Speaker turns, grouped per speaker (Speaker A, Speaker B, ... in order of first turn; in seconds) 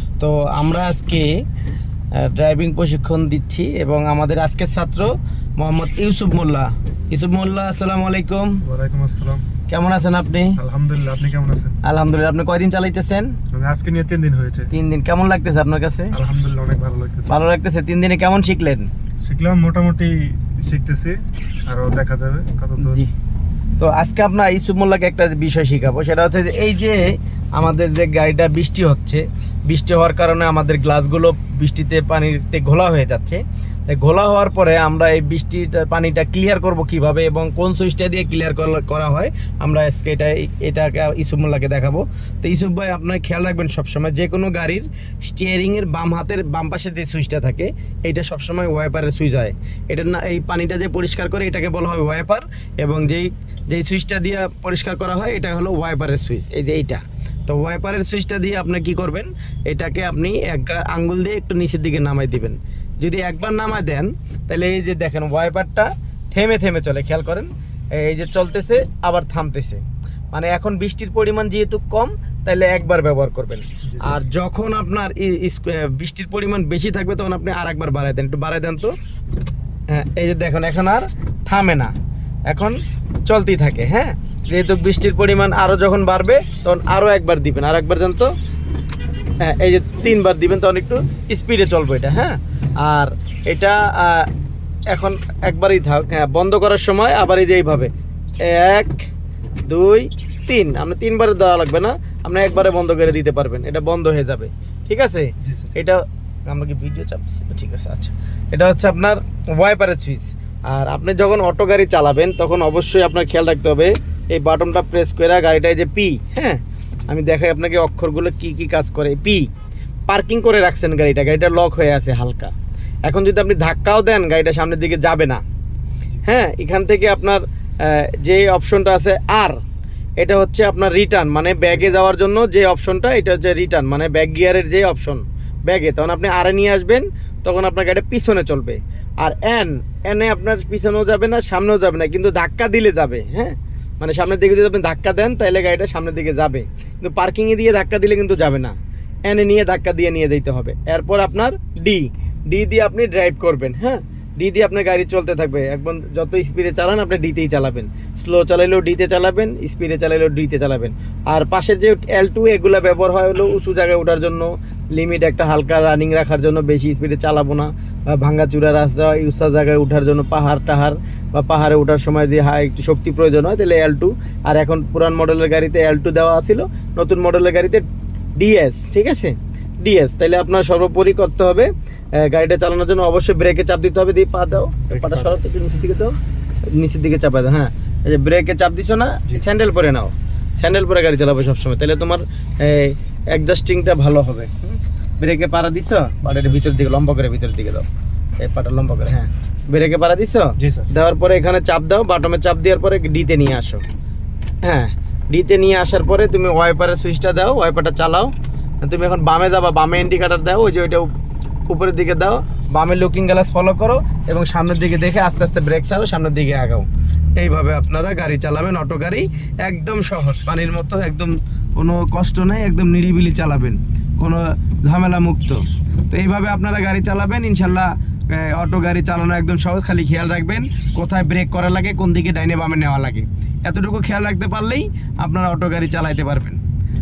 Speaker A: 0.2-1.4, 2.1-8.6, 9.7-10.6, 11.8-13.4, 14.7-16.1, 17.3-18.9, 22.8-23.1, 23.8-78.9, 79.9-81.9, 82.5-88.3, 89.4-94.3, 94.9-97.9, 98.4-99.1, 99.7-119.5, 120.1-122.5, 123.1-125.4, 126.2-129.6, 130.2-177.8, 178.4-186.2, 186.7-197.9, 198.4-203.8, 204.7-211.1, 211.7-236.6
Speaker B: 8.7-9.4, 10.6-11.8, 13.5-14.7, 16.1-17.4, 19.2-23.0, 73.9-74.1, 105.4-105.7, 184.9-185.4, 200.6-200.9